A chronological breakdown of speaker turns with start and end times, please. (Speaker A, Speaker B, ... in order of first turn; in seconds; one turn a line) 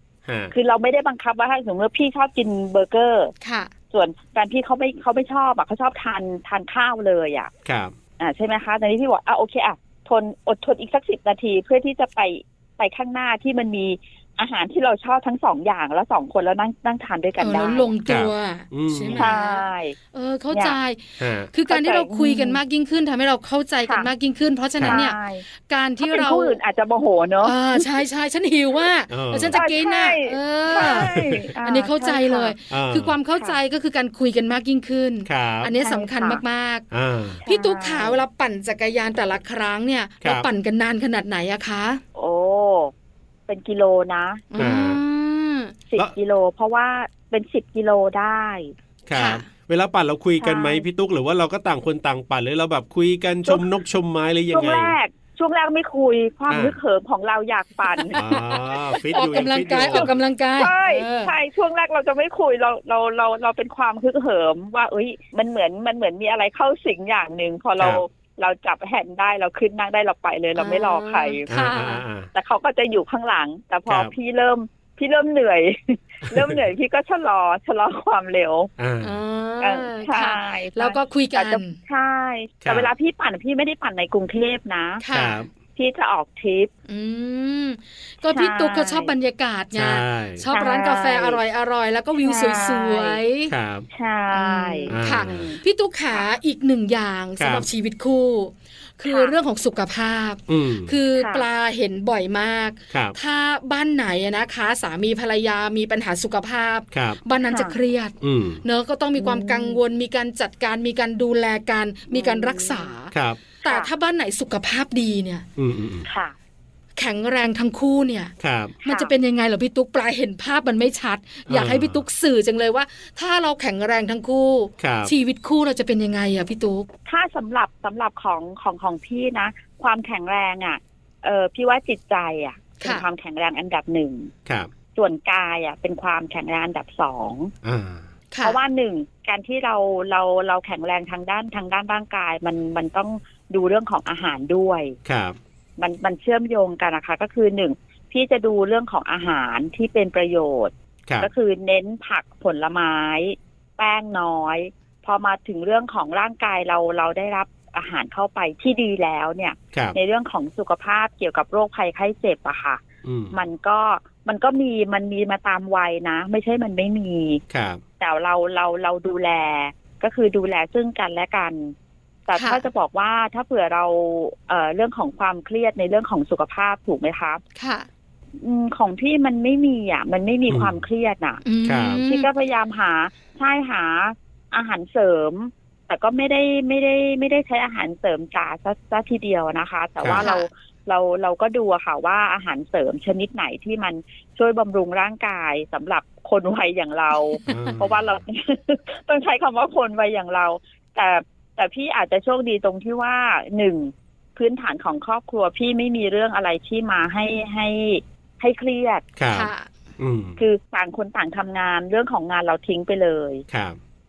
Speaker A: 0.2-0.5
Speaker B: 0.5-3.3
Speaker C: 3.4-3.7
Speaker B: 3.9-7.5
Speaker A: 7.6-7.9
Speaker B: 8.2-17.9
Speaker C: 17.4-26.6
Speaker A: 18.1-19.3
Speaker B: 19.1-19.9
Speaker B: 20.5-20.8
Speaker A: 21.2-21.5
Speaker B: 21.7-22.6
Speaker B: 24.8-25.4
Speaker B: 26.0-28.0
Speaker C: 27.4-36.8
Speaker A: 29.1-29.6
Speaker B: 29.5-32.5
Speaker A: 30.8-31.5
Speaker A: 32.7-33.1
Speaker A: 35.2-35.7
Speaker B: 35.8-36.4
Speaker A: 36.9-37.4
Speaker B: 37.4-38.2
Speaker C: 37.5-42.0
Speaker A: 40.2-40.5
Speaker B: 42.1-42.9
Speaker B: 43.5-44.5
Speaker C: 44.5-45.8
Speaker A: 44.6-45.0
Speaker B: 45.9-48.7
Speaker A: 49.0-54.9
Speaker C: 49.1-49.5
Speaker B: 50.4-50.8
Speaker B: 54.5-58.2
Speaker A: 56.5-56.8
Speaker C: 57.9-61.3
Speaker A: 58.1-60.1
Speaker B: 59.2-71.4
Speaker A: 67.8-68.0
Speaker C: 70.5-72.0
Speaker A: 71.5-72.3
Speaker B: 72.3-78.7
Speaker A: 76.3-76.6
Speaker A: 78.8-79.2
Speaker C: 79.0-81.8
Speaker B: 79.6-85.0
Speaker A: 82.6-82.9
Speaker C: 85.0-85.4
Speaker A: 85.1-85.5
Speaker B: 85.8-86.7
Speaker C: 86.9-93.5
Speaker B: 88.3-89.1
Speaker A: 89.7-90.5
Speaker B: 90.5-91.4
Speaker B: 92.2-93.2
Speaker A: 93.5-93.9
Speaker B: 93.9-95.6
Speaker C: 94.3-115.4
Speaker A: 94.9-95.5
Speaker A: 97.4-97.7
Speaker B: 99.0-99.3
Speaker A: 100.5-100.9
Speaker B: 101.2-101.4
Speaker A: 102.9-103.2
Speaker A: 106.9-107.2
Speaker B: 107.5-107.8
Speaker A: 108.2-108.6
Speaker B: 109.2-109.8
Speaker B: 112.1-112.9
Speaker A: 113.1-113.4
Speaker A: 115.6-116.0
Speaker B: 116.0-116.3
Speaker C: 117.0-126.9
Speaker A: 118.4-118.8
Speaker B: 118.8-119.1
Speaker A: 121.5-122.0
Speaker A: 124.8-125.1
Speaker B: 127.0-134.3
Speaker A: 134.4-134.7
Speaker B: 134.9-137.5
Speaker A: 137.6-138.1
Speaker C: 138.3-138.6
Speaker B: 138.4-144.9
Speaker A: 145.0-145.4
Speaker B: 145.8-167.4
Speaker A: 163.0-163.3
Speaker A: 167.5-167.8
Speaker B: 168.0-171.8
Speaker B: 172.3-177.4
Speaker C: 172.3-172.6
Speaker C: 177.6-177.9
Speaker B: 178.4-181.4
Speaker A: 180.5-180.8
Speaker C: 181.4-182.3
Speaker A: 181.7-182.0
Speaker B: 182.0-209.1
Speaker A: 190.0-190.3
Speaker C: 190.2-190.5
Speaker A: 197.5-198.2
Speaker A: 209.2-210.4
Speaker C: 209.3-209.7
Speaker B: 210.4-213.4
Speaker A: 213.5-213.8